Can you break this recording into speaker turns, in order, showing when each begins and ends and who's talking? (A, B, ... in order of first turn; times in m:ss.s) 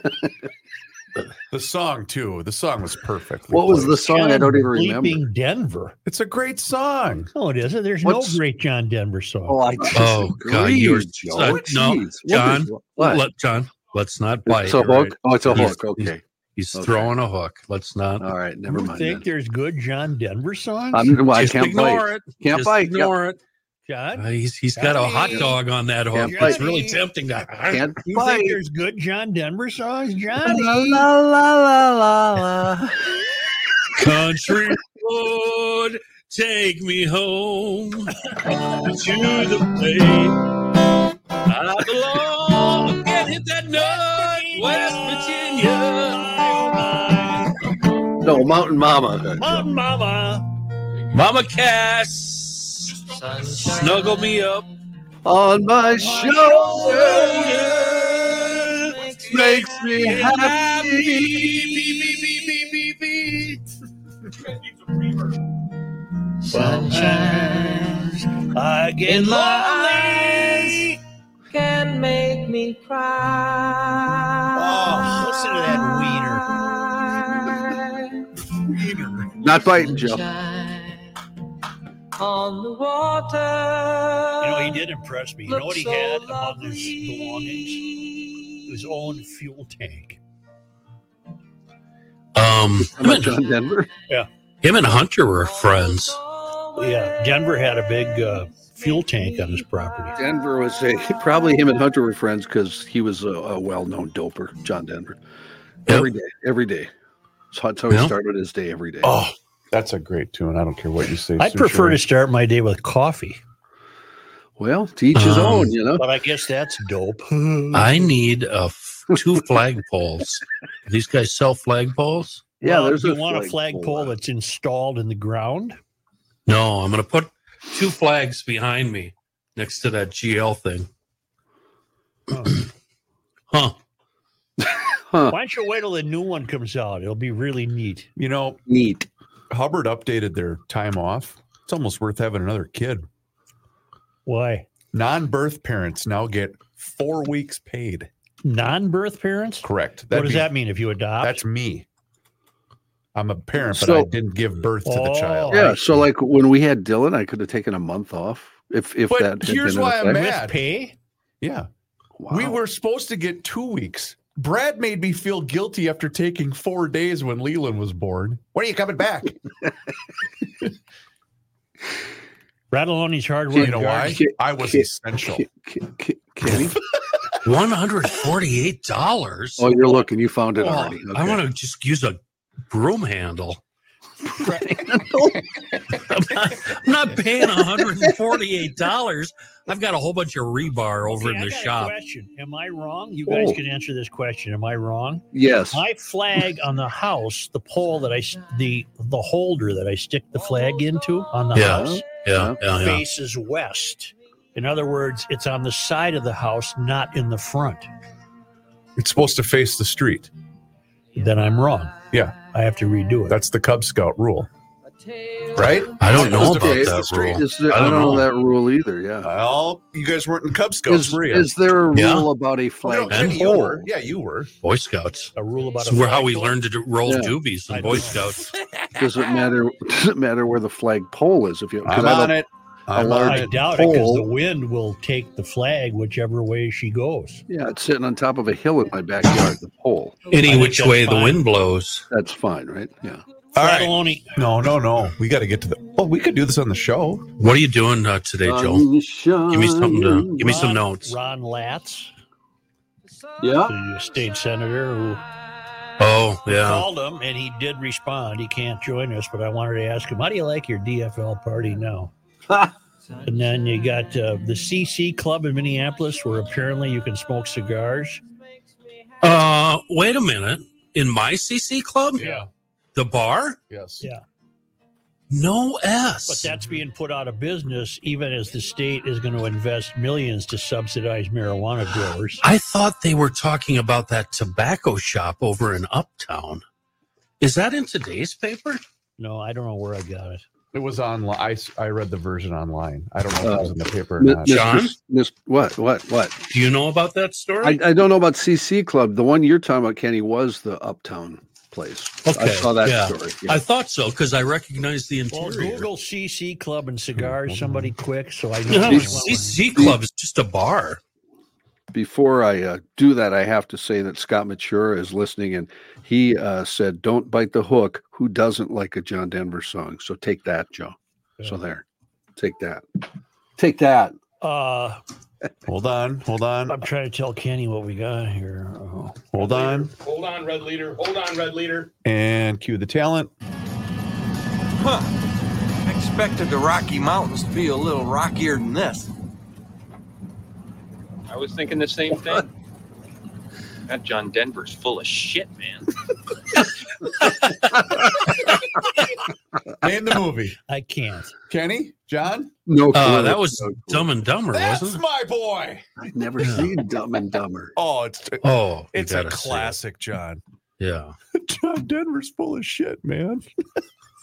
0:01.5-0:04.1 A
0:03.5-0:05.2 B
0:04.0-0:06.0 C
0:06.1-0:07.3 A
0:07.4-0:09.6 C
0:08.0-0:08.4 B
0:09.5-0:13.2 B
0:10.0-0:18.3 D
0:14.5-0:16.2 B
0:16.8-0:17.2 B
0:18.2-0:19.3 B
0:18.7-0:21.2 C
0:20.9-0:23.1 B
0:21.2-0:23.4 D
0:23.9-0:25.6 C
0:24.2-0:27.8 D
0:26.1-0:26.6 B
0:26.2-0:27.0 C
0:27.7-0:28.6 B
0:28.0-0:31.1 C
0:30.4-0:33.1 B
0:34.0-0:40.5 D
0:41.4-0:46.2 D
0:43.8-0:47.7 C
0:48.2-0:49.7 B
0:49.4-0:50.5 C
0:51.1-0:54.7 D
0:53.1-0:54.4 E
0:55.2-0:57.5 B
0:56.0-0:59.9 E
0:56.8-0:59.0 D
0:59.3-1:01.8 B
0:59.9-1:02.6 D
1:04.4-1:05.4 F
1:06.4-1:08.4 E
1:06.5-1:07.6 C
1:08.5-1:11.0 C
1:09.1-1:11.0 E
1:11.5-1:18.5 E
1:14.6-1:16.5 C
1:14.6-1:15.2 A
1:18.7-1:19.3 C
1:19.3-1:21.1 E
1:19.4-1:20.2 B
1:22.2-1:24.8 E
1:24.4-1:27.8 C
1:25.5-1:28.6 E
1:28.7-1:30.2 C
1:32.4-1:33.4 D
1:32.8-1:33.9 B
1:34.6-1:36.2 D
1:35.4-1:41.9 E
1:36.8-1:40.2 C
1:40.2-1:45.2 B
1:45.9-1:46.9 B
1:47.5-1:49.2 B
1:47.9-1:48.2 D
1:49.0-1:52.0 A
1:51.4-1:53.4 C
1:54.6-1:56.0 B
1:55.1-1:55.8 D
1:56.0-1:57.8 C
1:57.7-2:02.4 D
2:02.6-2:04.1 B
2:02.6-2:05.8 C
2:06.5-2:10.9 D
2:12.3-2:12.6 C
2:13.5-2:13.8 D
2:14.6-2:15.4 B
2:15.3-2:18.1 C
2:18.2-2:18.6 A
2:18.7-2:19.1 B
2:19.5-2:23.1 A
2:24.3-2:24.7 C
2:24.9-2:28.1 A
2:28.4-2:31.4 C
2:29.6-2:30.5 A
2:31.2-2:31.9 A
2:33.2-2:36.0 A
2:33.7-2:34.1 B
2:34.8-2:35.8 C
2:35.5-2:40.3 B
2:39.1-2:40.6 A
2:40.1-2:41.0 C
2:41.4-2:41.7 A
2:42.2-2:42.6 B
2:42.3-2:49.4 A
2:52.7-2:54.2 C
2:53.5-2:56.8 B
2:53.6-2:55.5 A
2:57.4-3:03.6 D
2:59.6-3:01.4 B
3:04.3-3:06.0 B
3:05.9-3:11.9 D
3:07.6-3:07.9 B
3:11.2-3:22.0 C
3:13.3-3:13.6 B
3:15.3-3:15.8 B
3:21.5-3:23.0 D
3:21.6-3:22.6 B
3:22.7-3:27.9 C
3:29.0-3:30.3 A
3:31.2-3:32.0 C
3:32.5-3:33.4 C
3:33.3-3:34.5 A
3:35.0-3:36.1 E
3:35.6-3:37.1 A
3:36.0-3:38.3 D
3:36.1-3:39.3 B
3:39.2-3:41.5 A
3:40.9-3:43.8 B
3:41.9-3:42.3 D
3:42.8-3:44.5 A
3:43.1-3:43.6 D
3:44.6-3:48.5 D
3:45.4-3:46.6 C
3:47.1-3:47.4 B
3:47.7-3:48.2 C
3:49.0-3:52.4 B
3:51.8-3:53.6 A
3:52.9-3:54.3 B
3:53.2-3:57.4 C
3:57.5-4:00.2 B
4:00.3-4:02.1 D
4:00.3-4:01.4 C
4:02.1-4:03.2 B
4:03.6-4:07.3 A
4:03.6-4:04.3 C
4:07.4-4:08.9 D
4:08.4-4:10.6 B
4:09.5-4:11.2 D
4:10.4-4:12.1 C
4:13.4-4:13.7 B
4:13.7-4:15.2 C
4:16.0-4:16.9 D
4:16.5-4:22.1 C
4:23.2-4:28.2 C
4:29.2-4:32.2 D
4:32.2-4:32.5 A
4:33.0-4:33.6 D
4:33.7-4:34.1 A
4:35.3-4:36.5 D
4:36.3-4:42.4 C
4:42.4-4:46.6 D
4:47.4-4:48.8 D
4:49.2-4:50.4 C
4:50.7-4:54.5 A
4:53.4-4:56.4 B
4:54.5-4:55.0 D
4:56.5-4:57.8 D
4:57.6-5:03.6 B
5:02.2-5:05.9 D
5:05.3-5:09.6 C
5:07.1-5:08.0 A
5:08.7-5:11.0 D
5:08.9-5:10.0 B
5:11.9-5:21.8 B
5:22.4-5:22.8 B
5:23.6-5:24.2 B
5:24.4-5:25.0 C
5:25.7-5:26.8 A
5:26.7-5:29.3 C
5:29.3-5:29.9 A
5:29.4-5:31.9 F
5:32.0-5:33.3 A
5:34.8-5:35.1 G
5:35.9-5:39.1 G
5:41.3-5:42.5 H
5:43.9-5:45.9 H
5:49.8-5:50.6 A
5:50.7-5:51.3 C
5:51.5-5:52.5 A
5:52.7-5:54.1 B
5:52.9-5:55.0 D
5:54.5-5:55.8 A
5:56.0-5:57.7 B
5:56.4-5:56.8 D
5:57.8-6:00.4 A
5:58.4-5:59.8 D
6:00.8-6:01.2 D
6:01.3-6:03.5 A